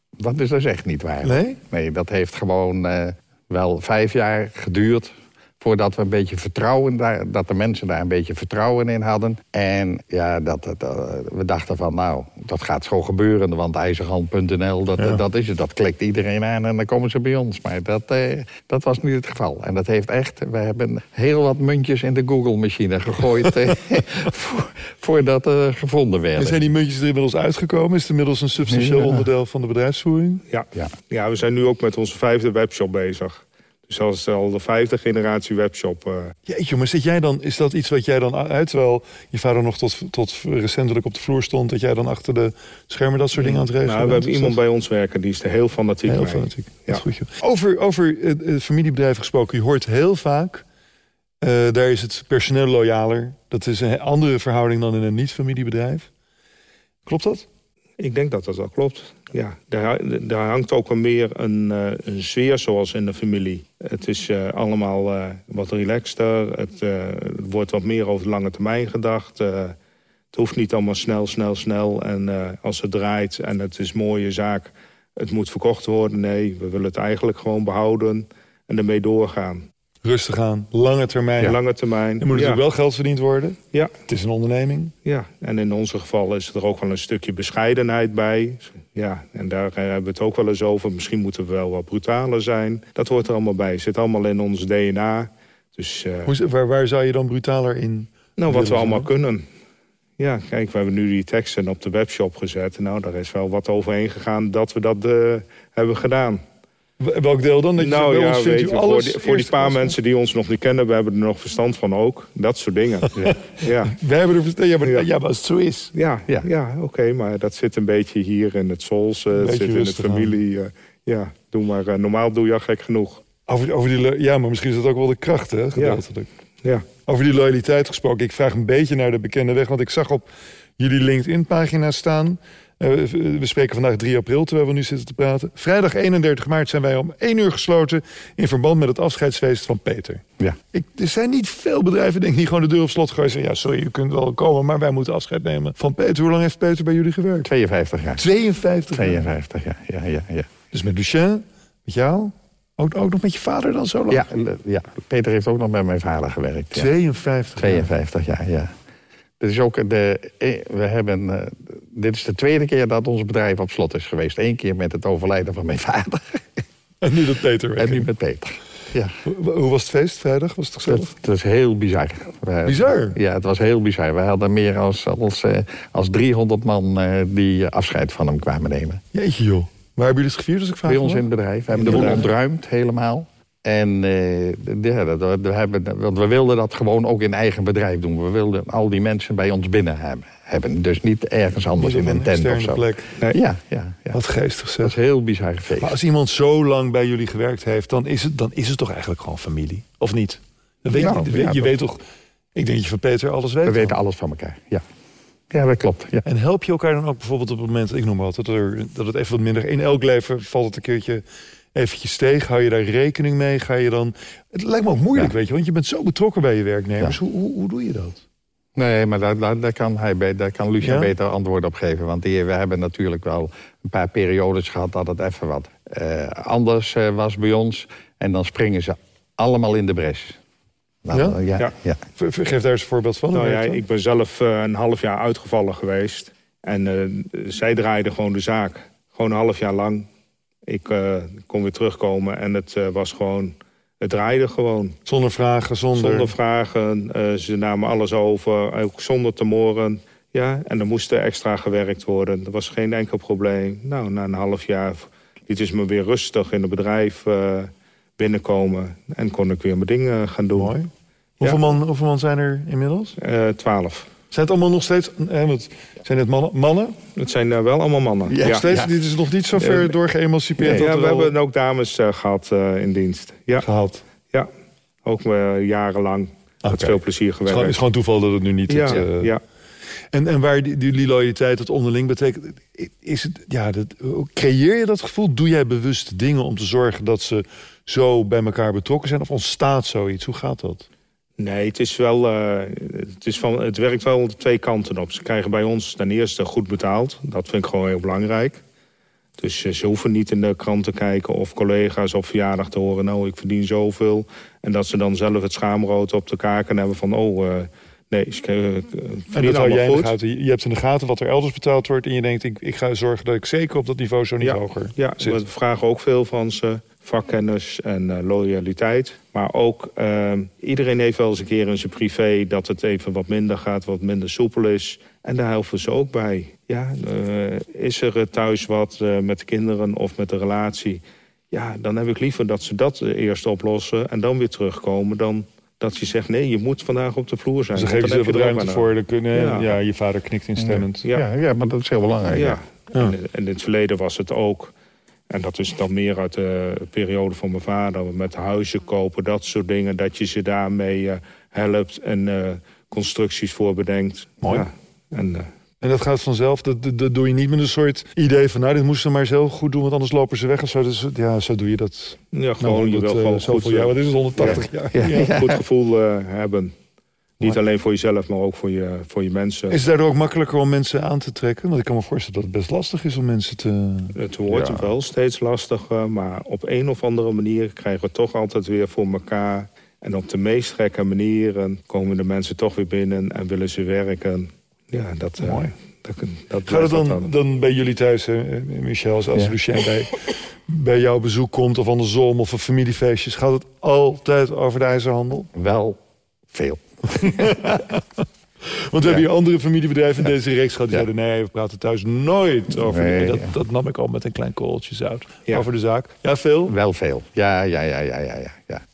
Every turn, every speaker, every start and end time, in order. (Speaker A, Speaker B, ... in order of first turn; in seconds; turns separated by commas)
Speaker A: 0.2-26.6, Speaker B: 1.2-1.6, Speaker B: 26.4-30.4, Speaker A: 28.7-29.2, Speaker C: 30.5-36.3, Speaker B: 36.5-44.6, Speaker C: 43.4-47.0, Speaker B: 46.1-50.6, Speaker B: 51.4-56.1, Speaker B: 57.0-57.5, Speaker C: 58.0-69.7, Speaker C: 70.3-79.6, Speaker B: 80.0-81.6, Speaker C: 81.4-82.6, Speaker B: 82.2-84.9, Speaker C: 85.0-96.3, Speaker B: 96.2-99.1, Speaker C: 98.4-99.4, Speaker C: 100.2-106.4, Speaker B: 107.0-109.9, Speaker C: 107.8-114.0, Speaker B: 113.2-115.9, Speaker C: 115.9-123.2, Speaker B: 119.3-120.3, Speaker B: 123.5-126.3, Speaker C: 125.8-126.0, Speaker B: 127.0-147.5, Speaker A: 147.4-148.2, Speaker B: 148.2-149.2, Speaker A: 148.9-150.5, Speaker B: 150.7-154.2, Speaker A: 154.1-156.9, Speaker B: 156.7-157.9, Speaker A: 157.6-158.7, Speaker A: 159.4-166.6, Speaker B: 167.0-168.1, Speaker A: 167.8-169.1, Speaker B: 169.2-171.1, Speaker A: 170.9-179.0, Speaker B: 172.6-173.2, Speaker B: 179.1-182.3, Speaker A: 180.9-194.2, Speaker C: 181.9-182.2, Speaker B: 191.8-193.1, Speaker B: 194.1-194.9, Speaker A: 194.8-195.9, Speaker B: 195.8-202.0, Speaker A: 200.9-201.7, Speaker B: 202.5-203.9, Speaker A: 203.6-204.8, Speaker A: 205.5-206.2, Speaker B: 206.2-218.2, Speaker A: 218.8-230.4, Speaker B: 220.8-221.1, Speaker A: 231.0-232.0, Speaker B: 231.1-231.4, Speaker B: 232.2-233.8, Speaker C: 233.3-240.1, Speaker C: 240.7-244.9, Speaker B: 245.1-246.3, Speaker C: 245.9-260.7, Speaker B: 260.6-260.9, Speaker B: 261.4-263.2, Speaker C: 263.2-264.1, Speaker B: 264.3-267.0, Speaker C: 267.1-268.6, Speaker A: 268.3-268.9, Speaker B: 268.4-271.3, Speaker A: 270.6-270.8, Speaker C: 270.7-273.6, Speaker B: 273.6-274.0, Speaker C: 275.0-277.8, Speaker B: 276.6-279.3, Speaker C: 278.7-279.4, Speaker B: 280.1-290.9, Speaker C: 291.4-298.6, Speaker C: 299.4-310.1, Speaker B: 309.3-315.4, Speaker C: 314.4-339.8, Speaker B: 337.7-341.0, Speaker A: 340.6-342.6, Speaker C: 342.3-344.7, Speaker C: 345.3-355.5, Speaker B: 354.4-354.7, Speaker B: 355.8-365.3, Speaker C: 362.3-366.7, Speaker A: 364.9-365.6, Speaker C: 367.4-369.8, Speaker B: 369.7-374.1, Speaker C: 374.1-387.3, Speaker B: 385.4-385.7, Speaker B: 386.6-395.5, Speaker A: 395.5-396.0, Speaker A: 396.5-397.6, Speaker B: 397.1-406.7, Speaker A: 402.7-403.5, Speaker A: 406.7-408.8